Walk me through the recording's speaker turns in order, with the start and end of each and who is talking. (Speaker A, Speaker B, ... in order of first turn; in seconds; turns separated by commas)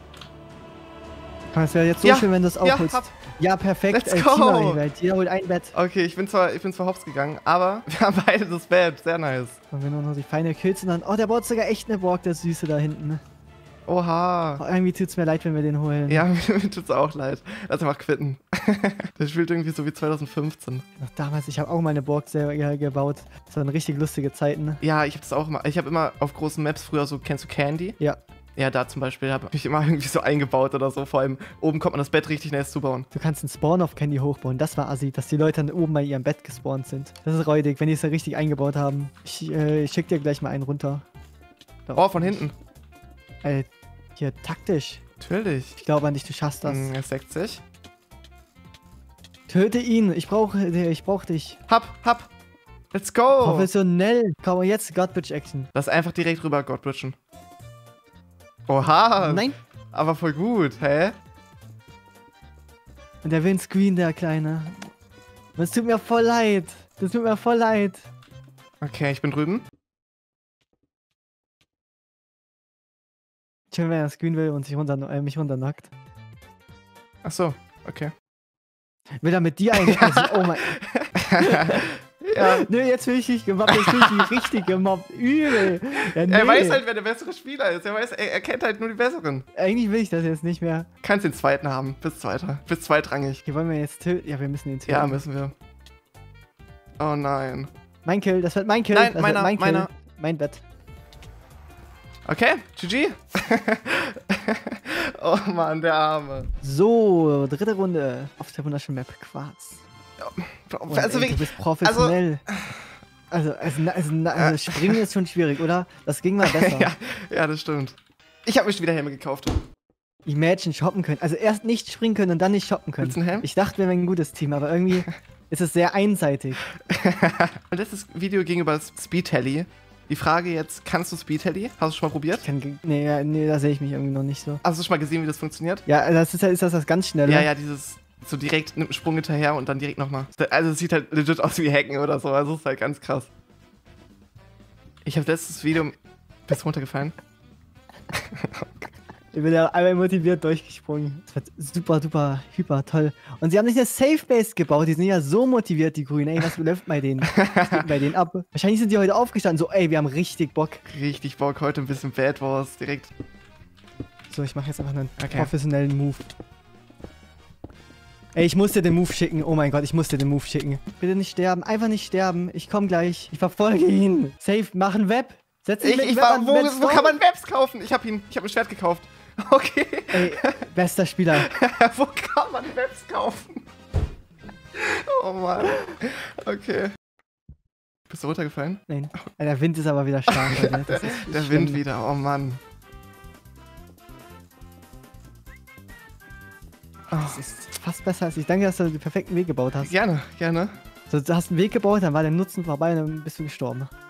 Speaker A: 1.5-5.7, Speaker B: 2.0-3.1, Speaker B: 3.9-4.8, Speaker B: 5.7-9.6, Speaker A: 9.7-13.2, Speaker B: 13.9-14.6, Speaker A: 14.6-16.3, Speaker B: 16.1-20.8, Speaker A: 21.0-24.8, Speaker B: 24.8-28.0, Speaker B: 28.6-33.1, Speaker A: 33.1-41.0, Speaker A: 41.9-42.4, Speaker B: 42.0-42.5, Speaker A: 43.4-45.0, Speaker B: 45.2-45.8, Speaker A: 45.8-46.9, Speaker B: 46.6-47.6, Speaker A: 49.5-51.6, Speaker B: 51.7-52.3, Speaker B: 52.9-53.7, Speaker A: 53.4-55.7, Speaker B: 55.7-57.1, Speaker B: 58.7-61.1, Speaker A: 59.2-59.6, Speaker A: 63.2-64.9, Speaker A: 65.5-68.1, Speaker B: 68.8-69.6, Speaker A: 73.7-75.9, Speaker B: 77.2-78.1, Speaker A: 79.2-80.7, Speaker B: 79.8-82.6, Speaker A: 81.3-86.8, Speaker B: 83.7-84.3, Speaker B: 86.2-89.4, Speaker A: 89.5-90.9, Speaker B: 91.0-93.4, Speaker A: 93.4-95.2, Speaker B: 94.9-95.5, Speaker B: 97.0-97.7, Speaker A: 98.0-100.6, Speaker B: 98.9-99.9, Speaker B: 102.2-106.5, Speaker A: 106.6-109.8, Speaker B: 110.2-112.8, Speaker A: 110.9-112.4, Speaker A: 113.3-116.9, Speaker B: 114.4-115.0, Speaker B: 116.4-119.6, Speaker A: 120.2-126.6, Speaker B: 123.0-123.5, Speaker B: 126.8-132.4, Speaker A: 132.4-134.6, Speaker B: 134.6-135.8, Speaker A: 135.9-137.5, Speaker B: 137.2-143.3, Speaker B: 145.0-145.9, Speaker B: 146.5-147.1, Speaker B: 148.1-148.7, Speaker A: 149.3-160.8, Speaker B: 157.3-157.8, Speaker B: 160.8-163.1, Speaker A: 164.3-166.3, Speaker B: 165.2-165.5, Speaker A: 168.3-177.2, Speaker B: 175.8-180.7, Speaker A: 180.1-181.5, Speaker B: 181.4-183.7, Speaker B: 184.7-186.9, Speaker B: 188.1-189.2, Speaker A: 188.9-191.8, Speaker B: 190.3-192.6, Speaker B: 197.1-197.4, Speaker A: 197.2-199.9, Speaker B: 199.8-200.7, Speaker A: 201.1-203.9